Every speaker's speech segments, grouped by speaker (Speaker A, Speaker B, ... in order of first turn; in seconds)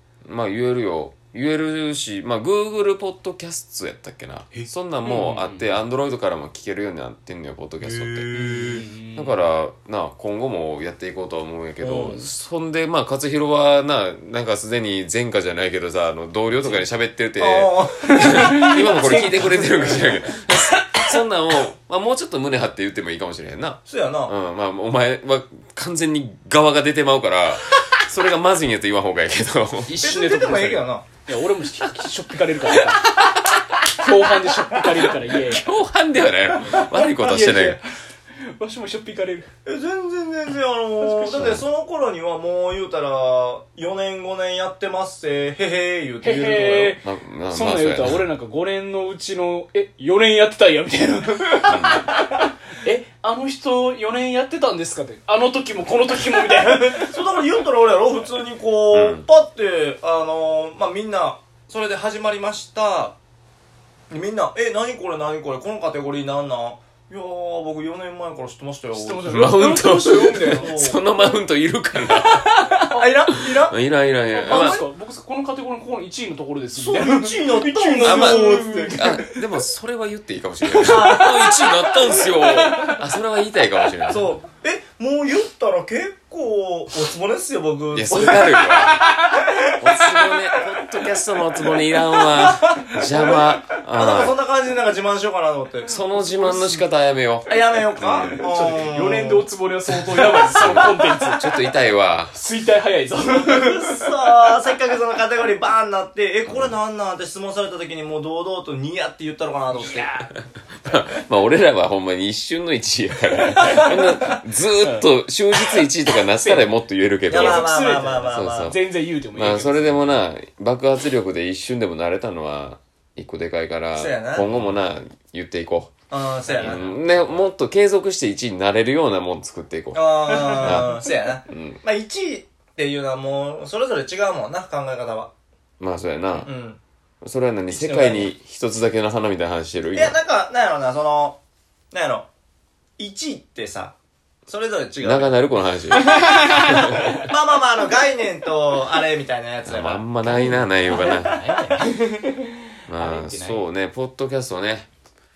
Speaker A: 0.2-8.3, 9.1-29.9, 32.8-33.5, 34.9-37.8, 47.0-48.3, 51.6-52.0, 58.9-59.2, 69.2-72.7, 73.5-74.8, 78.0-84.3, 87.9-89.0, 89.8-94.3, 95.8-98.4, 99.9-102.3, 110.4-117.7, 118.3-125.9, 126.6-131.8, 135.8-136.5, 137.2-140.2, 145.0-147.2, 149.6-151.4, 152.9-154.9
Speaker B: 5.0-5.8, 8.3-9.4, 18.4-19.7, 29.9-35.6, 36.5-39.5, 41.0-41.6, 46.2-57.2, 68.9-70.7, 74.3-79.3, 80.7-83.0, 88.5-89.3, 98.4-101.6, 102.3-104.5, 109.8-110.3, 114.8-115.1, 116.4-116.7, 117.3-120.2, 126.5-127.4, 130.3-131.1, 150.2-153.7
Speaker C: 7.8-8.8, 11.8-12.3, 17.4-20.2, 23.9-24.3, 30.0-31.1, 39.6-47.0, 56.5-63.1, 64.1-71.0, 72.2-73.8, 74.3-74.8, 76.7-79.0, 80.8-81.7, 84.1-90.4, 92.2-96.8, 97.5-99.5, 103.2-110.1, 113.5-114.0, 117.3-118.7, 123.9-124.5, 126.1-126.8, 129.9-135.3, 136.4-136.8, 137.7-138.3, 139.9-141.4, 141.9-142.3, 143.0-143.9, 144.5-145.4, 146.8-150.0, 150.9-151.4